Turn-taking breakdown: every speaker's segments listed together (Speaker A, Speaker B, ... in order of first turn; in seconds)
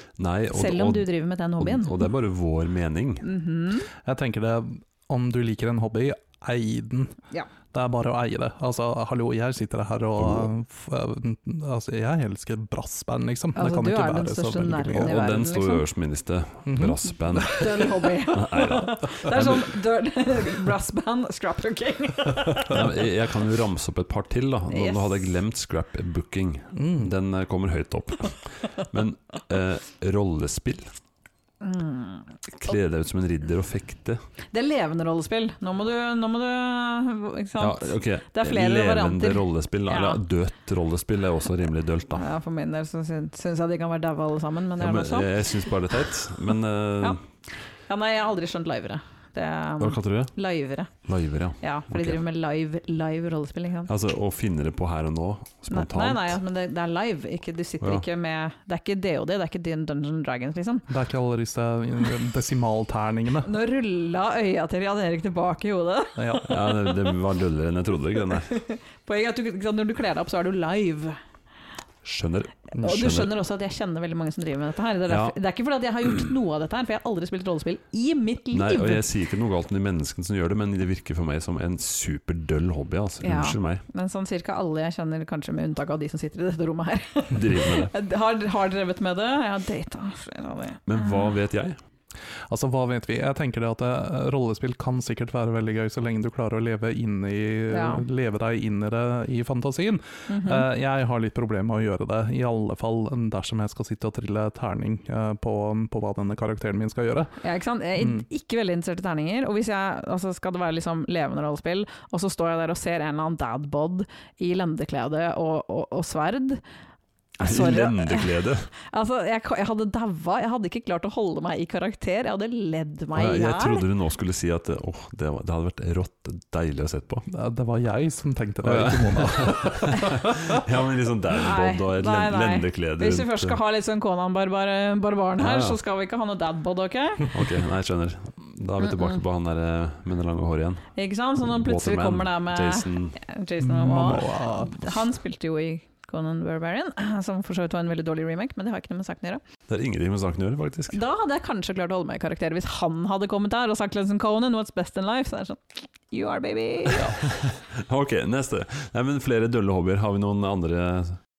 Speaker A: 0.2-3.3, 10.2-10.5, 15.0-19.7, 22.6-30.9, 32.5-34.2, 37.6-42.2, 44.8-47.2, 49.8-50.3, 51.0-52.2, 53.9-56.4, 66.5-68.5, 72.0-73.3, 75.1-75.3, 78.5-83.8, 87.3-87.9, 90.9-91.8, 117.4-118.7, 123.1-127.2, 128.6-133.6, 135.4-135.8, 137.3-140.9, 141.4-143.2, 149.7-151.0, 157.2-161.2
Speaker B: 0.5-2.1, 3.2-3.9, 13.6-15.8, 17.4-22.9, 24.7-25.3, 31.6-32.3, 34.5-40.2, 42.1-45.5, 47.9-50.9, 51.6-53.9, 55.7-60.9, 63.4-67.0, 68.4-71.2, 72.8-79.0, 83.2-91.3, 97.7-98.0, 100.3-100.7, 107.4-116.6, 117.4-123.8, 131.3-137.3, 140.9-149.4, 150.9-157.2
Speaker C: 4.0-7.2, 7.7-15.1, 16.7-17.7, 26.7-27.1, 60.9-63.5, 66.2-66.5, 92.5-107.3, 108.0-108.2, 127.3-130.6, 143.6-144.8